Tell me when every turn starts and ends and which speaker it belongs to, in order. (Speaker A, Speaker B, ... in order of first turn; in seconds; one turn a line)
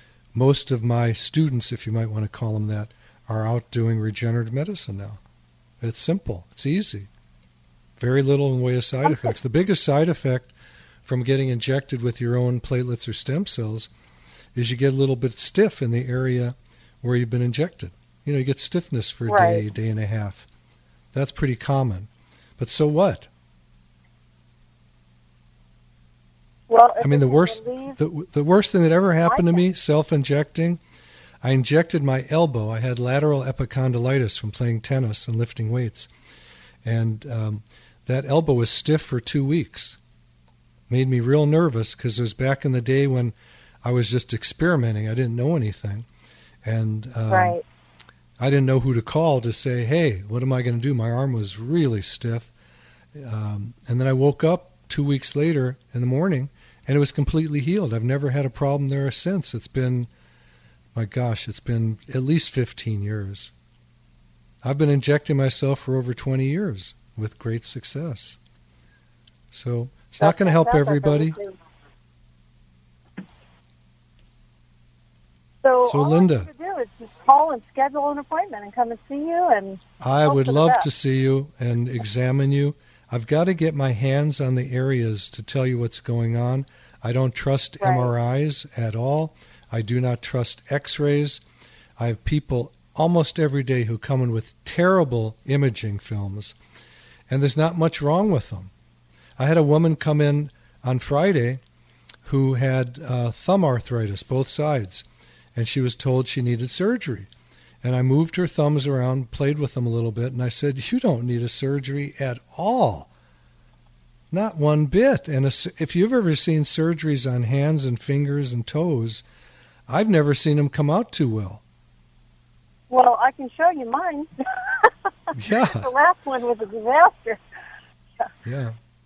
Speaker A: 0.3-5.2
Speaker A: 5.8-7.1
Speaker A: 8.0-10.5
Speaker B: 9.1-9.3
Speaker A: 11.1-13.9
Speaker A: 14.6-20.5
Speaker B: 19.3-19.6
Speaker A: 21.1-23.3
Speaker B: 26.7-28.0
Speaker A: 27.0-30.8
Speaker B: 29.3-29.6
Speaker A: 31.4-36.1
Speaker A: 36.8-40.0
Speaker A: 40.9-46.1
Speaker A: 46.6-47.6
Speaker B: 47.3-47.6
Speaker A: 48.4-52.5
Speaker A: 53.1-60.1
Speaker A: 60.9-63.5
Speaker A: 64.6-68.4
Speaker A: 69.5-71.4
Speaker B: 70.2-71.5
Speaker B: 75.6-80.9
Speaker A: 75.8-76.5
Speaker A: 80.0-91.4
Speaker B: 87.8-88.1
Speaker A: 92.0-96.6
Speaker A: 97.3-98.7
Speaker A: 99.4-101.6
Speaker A: 102.2-107.3
Speaker A: 107.8-113.1
Speaker A: 114.3-119.2
Speaker A: 119.9-121.6
Speaker B: 122.9-127.4
Speaker A: 125.3-125.9
Speaker A: 128.4-128.8